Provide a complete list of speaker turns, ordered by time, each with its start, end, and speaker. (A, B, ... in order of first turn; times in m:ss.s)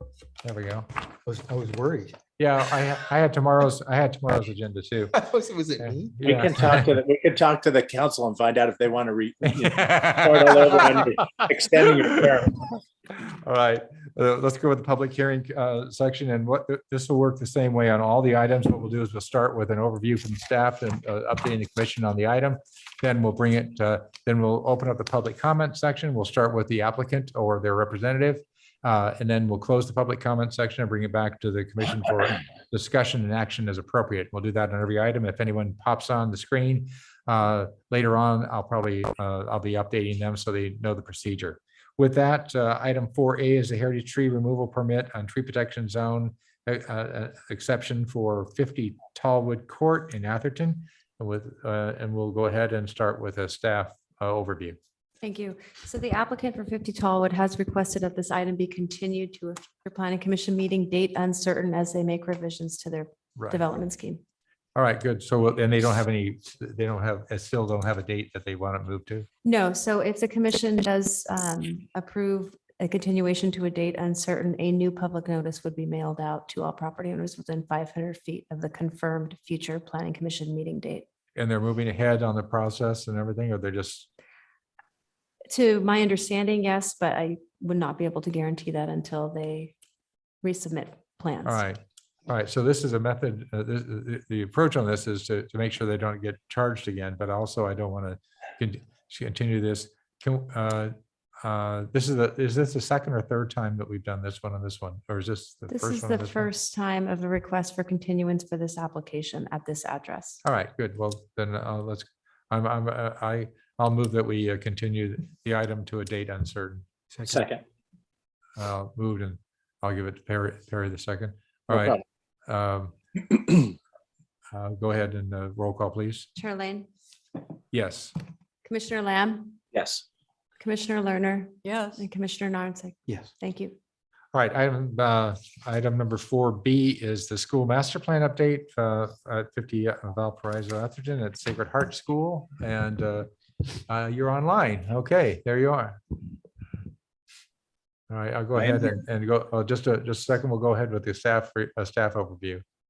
0:00.4-0:00.9 A
0:01.3-0:02.2 B
0:02.4-0:05.2 A
0:05.1-0:06.1 B
0:05.8-0:07.0 A
0:06.2-0:12.6 C
0:09.6-0:12.3 A
0:13.2-0:54.8 A
0:55.2-1:04.2 D
1:03.4-1:03.6 A
1:04.8-1:09.3 A
1:09.4-1:21.1 D
1:21.4-1:24.1 A
1:25.5-1:29.7 D
1:30.4-1:31.6 D
1:31.4-1:46.5 A
1:45.7-1:50.4 D
1:50.4-1:56.9 A
1:57.1-1:57.4 B
1:57.3-1:57.6 C
1:58.6-2:03.7 A
2:04.5-2:06.3 A
2:06.4-2:06.9 D
2:07.7-2:08.1 A
2:08.6-2:09.6 D
2:09.7-2:10.0 C
2:10.6-2:13.8 D
2:11.6-2:12.1 B
2:14.3-2:26.0 A
2:28.1-2:32.6 A
2:28.6-2:28.9 C